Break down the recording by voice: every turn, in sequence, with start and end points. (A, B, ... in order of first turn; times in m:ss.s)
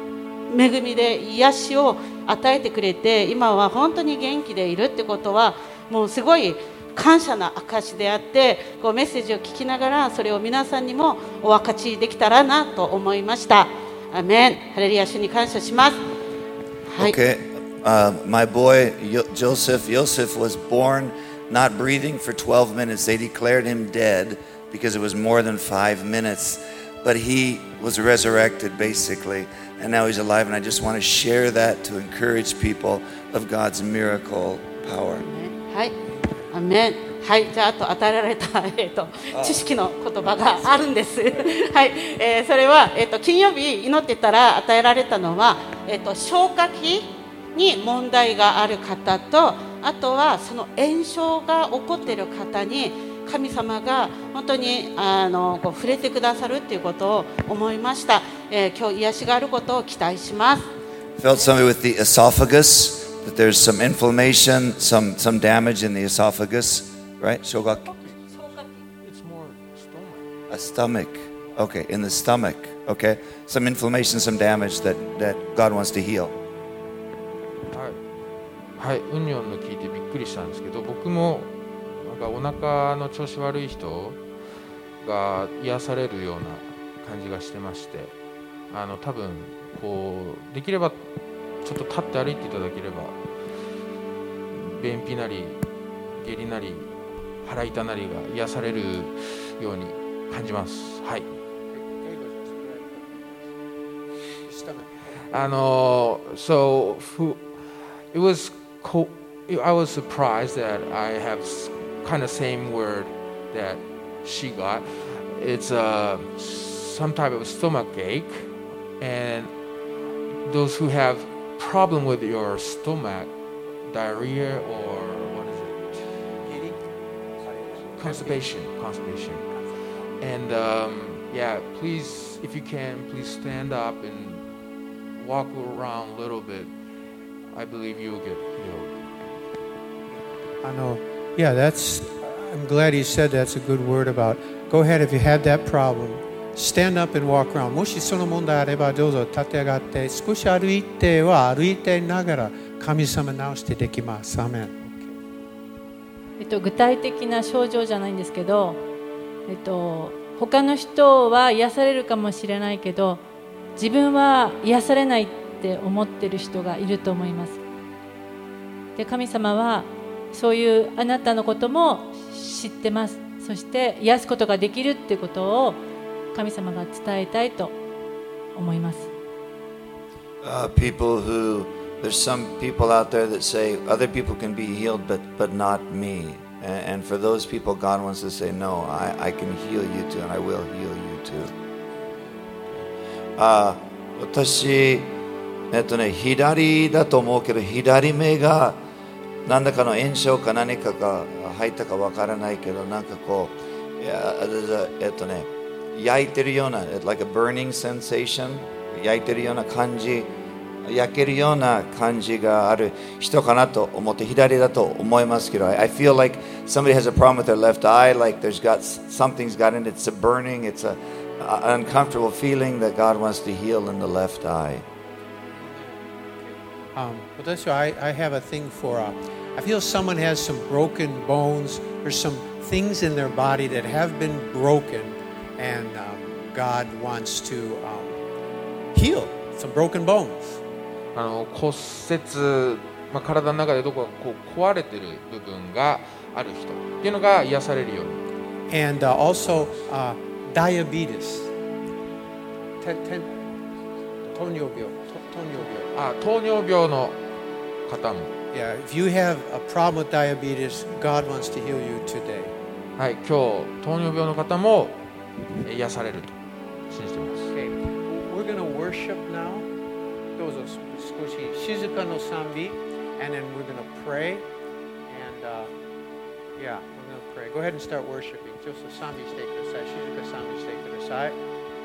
0:00.5-0:16.0 A
0:16.8-0:17.2 A
0:17.0-0:35.2 B
0:35.2-0:36.0 A
0:36.5-1:00.7 A
1:01.2-1:07.9 B
1:08.1-1:10.2 C
1:10.5-1:16.3 B
1:17.7-1:18.0 C
1:18.8-1:24.2 C
1:25.0-1:28.1 C
1:28.7-1:31.0 C
1:31.6-1:33.2 C
1:34.5-1:35.6 C
1:36.2-1:36.9 C
1:37.4-1:41.2 C
1:41.7-1:43.4 D
1:44.5-1:44.9 D
1:45.3-1:47.4 C
1:48.1-1:58.5 C
1:59.0-1:59.5 C
2:00.4-2:03.3 C
2:03.9-2:06.0 C
2:06.4-2:06.8 D
2:07.4-2:08.4 D
2:08.0-2:09.5 C
2:10.2-2:14.4 C
2:15.2-2:16.7 C
2:17.5-2:18.9 C
2:20.6-2:35.1 D
2:36.4-2:38.8 E
2:39.5-2:43.2 E
2:43.8-2:47.6 E
2:49.0-2:55.8 E
2:56.3-2:57.7 E
2:58.6-2:59.1 E
3:00.4-3:11.5 B
3:13.4-3:15.1 B
3:15.7-3:18.8 B
3:19.4-3:30.3 B
3:30.8-3:44.8 B
3:45.5-3:58.2 D
3:58.9-4:00.6 D
4:01.1-4:08.2 C
4:08.7-4:11.5 D
4:12.8-4:13.3 D
4:14.3-4:15.7 D
4:15.6-4:17.2 C
4:17.8-4:18.3 C
4:18.5-4:22.5 D
4:23.0-4:25.0 C
4:25.6-4:26.3 C
4:26.9-4:27.5 C
4:27.5-4:29.7 D
4:30.4-4:34.4 D
4:35.1-4:35.7 D
4:36.6-4:41.4 D